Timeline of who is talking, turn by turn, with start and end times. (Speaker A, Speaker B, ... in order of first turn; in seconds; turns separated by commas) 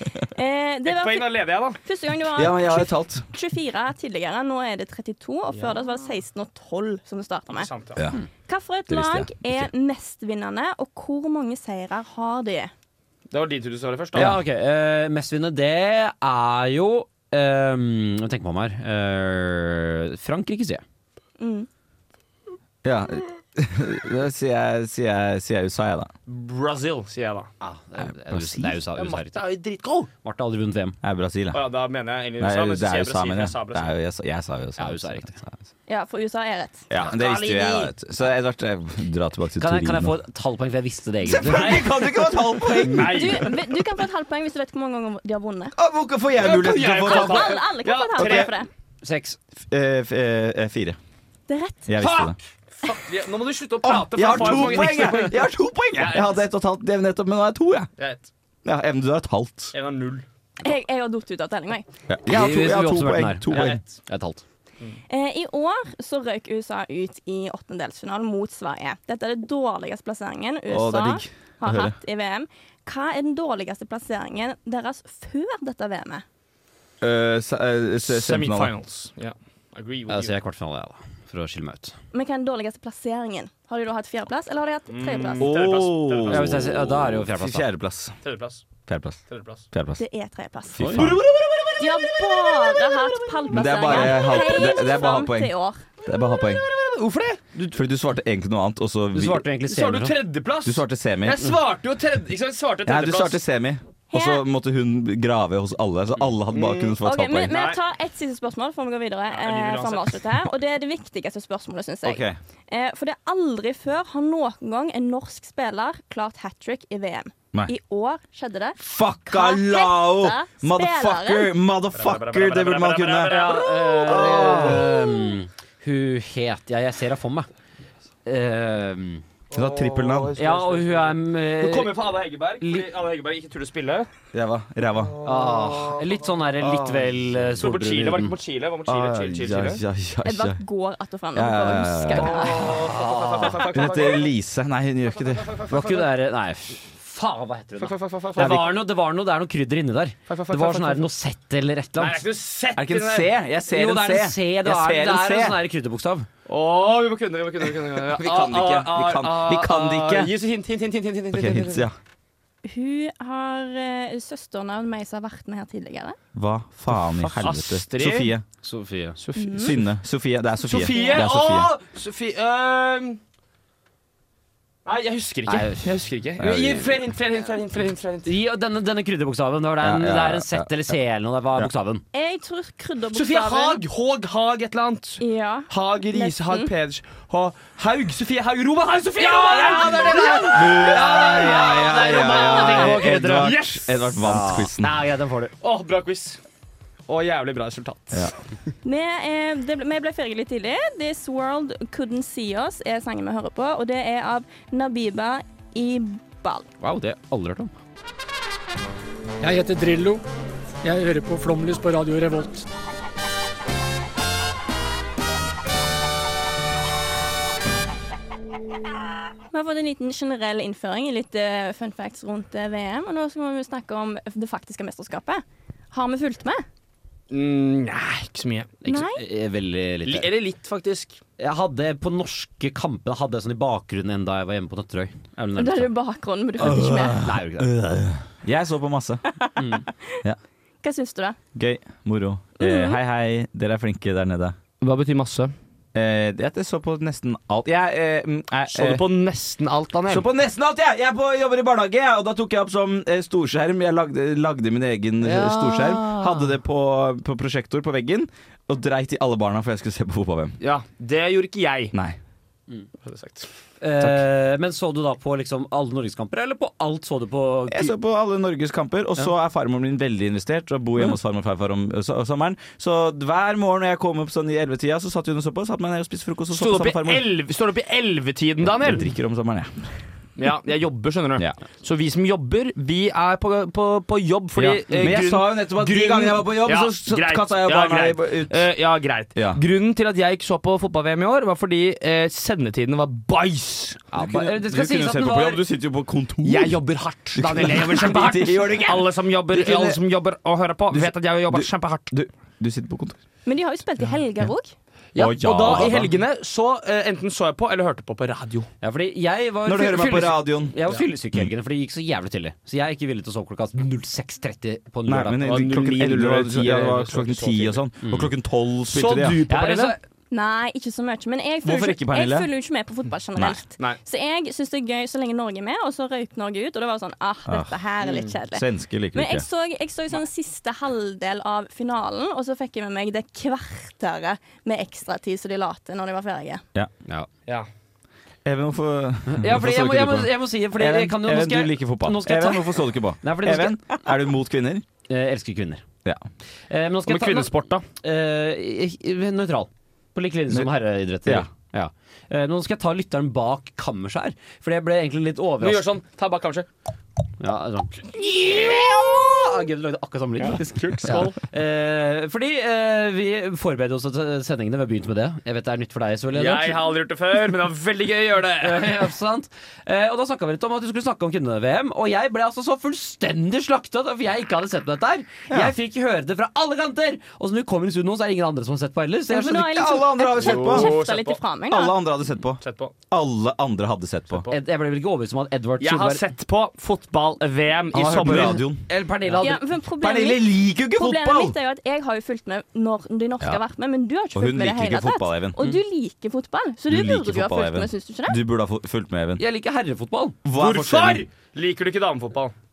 Speaker A: 0.3-7.7, Speaker B: 0.8-1.8, Speaker C: 2.4-3.3, Speaker B: 5.5-5.8, Speaker B: 7.5-8.0, Speaker A: 8.5-12.7, Speaker C: 8.9-9.7, Speaker B: 13.3-14.4, Speaker C: 14.1-14.4, Speaker D: 14.1-20.8, Speaker A: 21.4-21.7, Speaker C: 22.8-26.1, Speaker B: 26.3-27.5, Speaker D: 27.6-29.4, Speaker C: 28.0-28.8, Speaker B: 28.9-30.1, Speaker D: 30.2-31.0, Speaker C: 31.0-31.6, Speaker B: 31.5-33.9, Speaker C: 32.4-35.6, Speaker D: 34.8-35.4, Speaker A: 35.9-36.9, Speaker C: 36.9-40.2, Speaker B: 37.0-37.9, Speaker D: 39.6-41.8, Speaker C: 41.2-43.5, Speaker B: 41.5-41.9, Speaker B: 42.7-43.5, Speaker A: 43.0-45.7, Speaker C: 45.8-47.6, Speaker B: 46.4-48.5, Speaker A: 46.4-48.7, Speaker C: 48.1-48.5, Speaker D: 49.0-49.4, Speaker C: 49.7-51.0, Speaker A: 51.5-51.9, Speaker C: 51.9-52.4, Speaker B: 52.0-55.4, Speaker C: 53.8-57.9, Speaker D: 54.2-55.3, Speaker B: 56.0-56.4, Speaker B: 58.0-58.3, Speaker C: 58.6-59.7, Speaker B: 59.7-60.2, Speaker A: 60.6-61.9, Speaker C: 62.1-63.8, Speaker D: 62.3-64.4, Speaker B: 63.5-64.0, Speaker A: 65.1-76.2, Speaker C: 70.7-71.9, Speaker C: 77.0-78.7, Speaker B: 78.0-80.3, Speaker D: 80.1-81.9, Speaker A: 82.1-85.5, Speaker B: 84.9-86.5, Speaker C: 85.4-88.2, Speaker D: 86.3-87.6, Speaker B: 88.2-88.6, Speaker C: 88.9-89.2, Speaker B: 89.3-89.6, Speaker C: 89.7-90.0, Speaker A: 90.0-90.8, Speaker C: 90.7-91.3, Speaker D: 90.8-91.2, Speaker B: 91.0-91.8, Speaker A: 91.8-95.8, Speaker B: 92.4-94.2, Speaker C: 93.5-96.6, Speaker B: 96.3-97.4, Speaker C: 97.7-99.5, Speaker D: 99.1-100.2, Speaker B: 99.7-103.4, Speaker C: 100.6-101.5, Speaker C: 102.8-107.5, Speaker A: 104.1-104.4, Speaker B: 106.5-107.8, Speaker A: 107.0-121.5, Speaker B: 109.3-110.2, Speaker C: 112.0-112.4, Speaker C: 118.8-124.9, Speaker B: 121.9-124.8, Speaker A: 123.3-124.1, Speaker D: 123.6-127.5, Speaker A: 124.9-125.3, Speaker D: 128.2-129.2, Speaker C: 129.5-130.4, Speaker B: 129.5-134.1, Speaker D: 130.3-132.9, Speaker C: 134.3-135.1, Speaker D: 135.2-138.3, Speaker C: 136.6-137.0, Speaker B: 137.6-139.8, Speaker C: 138.8-140.6, Speaker A: 140.2-142.6, Speaker C: 141.3-142.7, Speaker B: 142.2-144.3, Speaker D: 142.6-143.7, Speaker C: 143.6-145.5, Speaker B: 145.3-146.0, Speaker D: 145.7-152.2, Speaker B: 147.8-148.7, Speaker C: 148.4-148.7, Speaker B: 150.3-151.0, Speaker B: 152.0-153.3, Speaker C: 152.7-155.6, Speaker D: 153.7-156.3, Speaker B: 156.5-161.8, Speaker C: 158.1-160.3, Speaker C: 161.3-161.9, Speaker A: 162.6-166.2, Speaker C: 166.3-168.4, Speaker B: 167.1-168.3, Speaker D: 168.6-169.2, Speaker B: 169.2-169.8, Speaker A: 169.4-169.7, Speaker C: 169.5-171.7, Speaker B: 170.6-173.2, Speaker A: 170.9-171.2, Speaker B: 174.8-178.3, Speaker D: 175.5-175.9, Speaker C: 176.4-177.0, Speaker D: 178.2-182.0, Speaker C: 179.8-180.9, Speaker A: 182.1-183.8, Speaker B: 183.1-194.1, Speaker A: 185.2-186.7, Speaker D: 189.3-193.6, Speaker A: 189.4-190.5, Speaker C: 190.3-195.0, Speaker D: 194.2-195.5, Speaker B: 195.6-196.4, Speaker B: 197.1-198.3, Speaker A: 198.8-206.7, Speaker D: 206.8-207.7, Speaker E: 209.4-210.2, Speaker E: 210.8-212.6, Speaker A: 219.5-226.6, Speaker B: 227.3-228.7, Speaker D: 228.8-230.3, Speaker A: 228.8-229.2, Speaker B: 230.0-231.2, Speaker D: 231.4-235.9, Speaker A: 235.6-237.2, Speaker C: 236.6-239.2, Speaker D: 236.6-237.7, Speaker D: 239.6-239.8, Speaker A: 240.8-241.4, Speaker C: 241.5-244.6, Speaker A: 242.6-243.0, Speaker B: 244.8-245.5, Speaker C: 245.9-249.0, Speaker B: 248.7-250.3, Speaker C: 250.1-260.6, Speaker B: 255.4-256.3, Speaker B: 260.6-261.9, Speaker B: 263.0-263.5, Speaker D: 263.8-267.9, Speaker C: 264.0-264.2, Speaker C: 267.7-277.3, Speaker B: 276.5-279.1, Speaker C: 278.6-279.9, Speaker B: 280.4-294.0, Speaker C: 284.6-288.7, Speaker C: 289.3-289.6, Speaker D: 294.1-295.6, Speaker C: 294.1-296.8, Speaker B: 296.4-302.1, Speaker C: 297.3-300.0, Speaker C: 300.9-303.2, Speaker A: 303.4-304.7, Speaker B: 305.1-308.7, Speaker C: 305.1-306.1, Speaker D: 308.8-315.4, Speaker C: 309.6-310.8, Speaker C: 315.1-319.4, Speaker B: 315.4-317.8, Speaker D: 318.0-318.3, Speaker B: 318.9-320.0, Speaker D: 319.5-319.9, Speaker A: 320.3-336.6, Speaker C: 321.6-322.5, Speaker C: 327.5-327.8, Speaker B: 328.0-328.3, Speaker C: 328.5-329.4, Speaker C: 338.4-344.8, Speaker D: 339.3-343.8, Speaker D: 345.1-345.8, Speaker D: 346.7-355.9, Speaker B: 347.1-347.8, Speaker B: 355.6-356.7, Speaker D: 357.4-366.9, Speaker B: 360.4-361.4, Speaker B: 366.3-368.9, Speaker D: 368.6-379.7, Speaker C: 375.5-375.7, Speaker A: 379.3-382.0, Speaker C: 379.5-381.0, Speaker B: 380.4-381.4, Speaker C: 381.7-384.4, Speaker B: 382.6-382.9, Speaker B: 384.3-384.6, Speaker D: 384.5-386.2, Speaker B: 385.8-388.6, Speaker C: 387.9-388.9, Speaker D: 388.1-389.6, Speaker A: 389.4-398.4, Speaker C: 390.0-391.5, Speaker C: 394.3-395.6, Speaker C: 396.9-399.4, Speaker D: 399.4-400.4, Speaker C: 400.4-401.2, Speaker B: 400.5-402.5